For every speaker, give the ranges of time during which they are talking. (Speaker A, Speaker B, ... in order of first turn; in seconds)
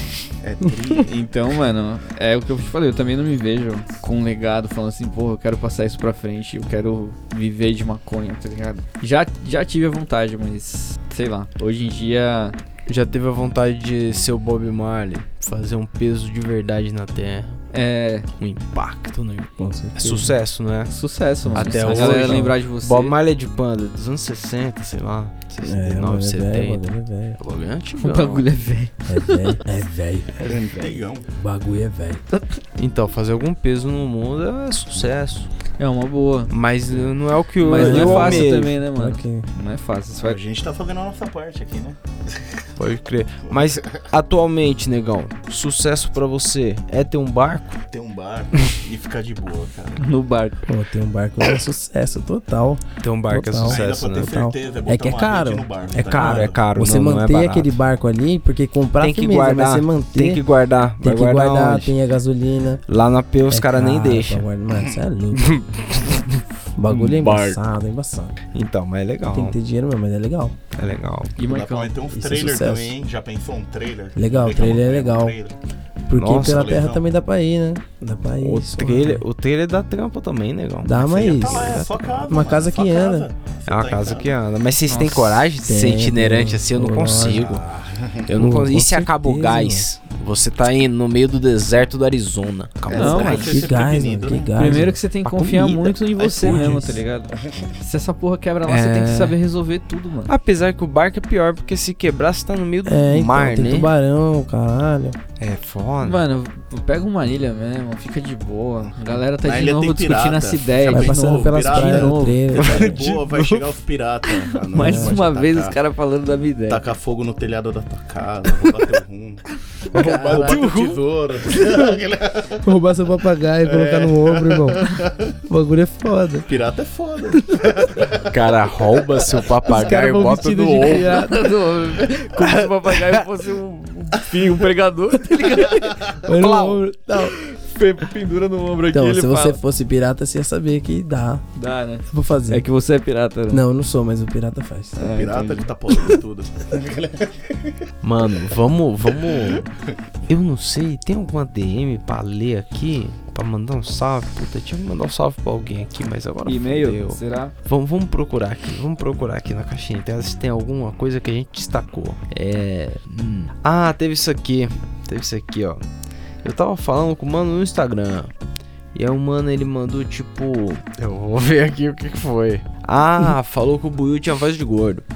Speaker A: 0.4-1.2, 30.4-31.3, 40.2-42.7, 43.5-43.8, 47.8-50.1, 53.6-56.6, 71.4-75.5, 76.4-77.0, 80.9-84.3, 87.2-88.3, 92.9-94.6, 96.5-96.7, 109.4-115.8, 116.7-122.7, 123.7-125.4, 126.5-128.4, 135.6-136.1, 145.0-147.8, 149.1-149.7
Speaker B: 0.9-12.6, 17.7-18.3, 20.9-23.1, 28.0-29.6, 32.3-32.6, 35.8-36.5, 37.6-40.4, 50.0-50.6, 71.4-72.0, 84.9-85.5, 92.9-93.6, 94.5-100.3, 106.0-112.6, 114.7-116.8, 120.0-121.8, 131.0-136.5, 137.2-139.6, 141.6-143.6, 145.0-145.7, 156.5-157.5
Speaker C: 12.9-17.6, 18.4-20.9, 21.5-26.8, 27.4-28.5, 30.6-31.0, 32.8-35.5, 36.5-38.7, 42.8-47.8, 53.0-54.5, 55.9-57.7, 59.0-62.0, 62.9-64.5, 65.3-67.6, 68.5-69.6, 70.8-71.3, 76.2-76.7, 78.4-81.8, 83.7-87.6, 88.3-93.8, 95.2-96.7, 98.7-99.4, 100.3-103.9, 105.4-106.2, 112.6-113.6, 120.0-120.9, 128.3-131.3, 132.4-133.2, 136.4-136.7, 148.0-149.7, 150.3-165.8, 166.4-168.3, 168.9-175.0
Speaker D: 19.6-20.4, 21.4-22.6, 25.6-27.4, 29.1-30.6, 31.3-32.2, 37.7-39.5, 50.7-55.6, 56.8-60.4, 61.0-62.8, 63.5-65.6, 66.8-68.3, 69.3-70.6, 72.1-72.9, 74.2-75.4, 76.1-79.2, 80.8-83.3, 85.7-87.5, 88.3-89.8, 93.0-95.0, 96.4-97.0, 102.9-105.2, 110.9-113.1, 114.8-115.2, 120.0-120.7, 122.6-124.9, 125.5-126.5, 127.4-127.6, 129.6-131.3, 136.2-137.3, 138.9-141.4, 142.1-142.6, 143.5-145.1